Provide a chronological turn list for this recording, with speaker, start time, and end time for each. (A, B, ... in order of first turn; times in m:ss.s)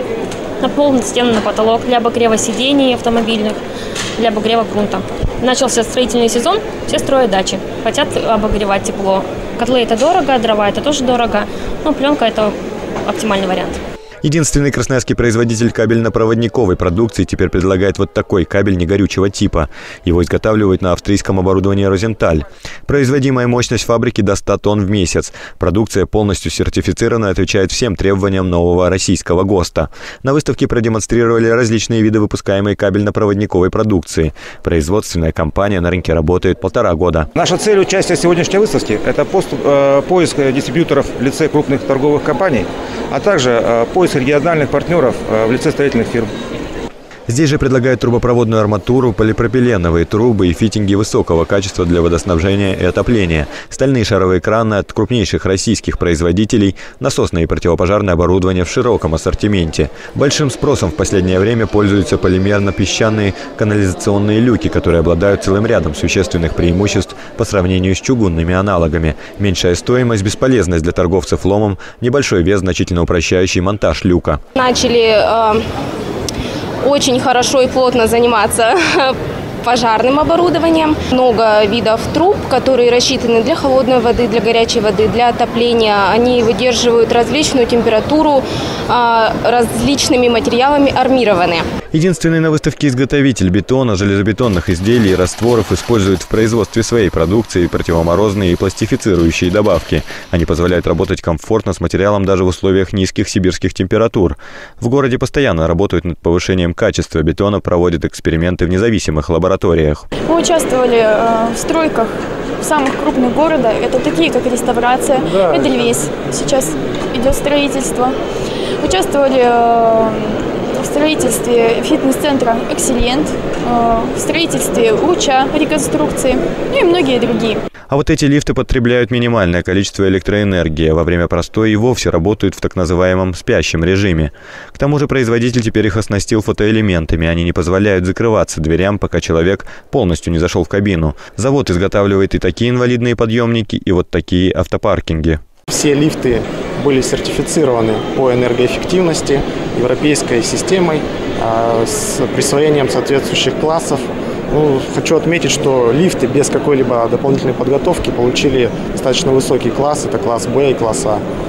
0:00.6-0:03.6 A
0:04.2-0:13.8 A
0:14.2-0:37.3 B
0:37.4-0:46.3 C
0:47.3-1:14.4 B
1:14.6-1:15.6 D
1:16.8-1:31.6 D
1:31.9-1:50.0 B
1:50.3-1:58.1 E
1:58.8-2:07.6 E
2:07.9-2:25.4 B
2:25.7-2:41.2 F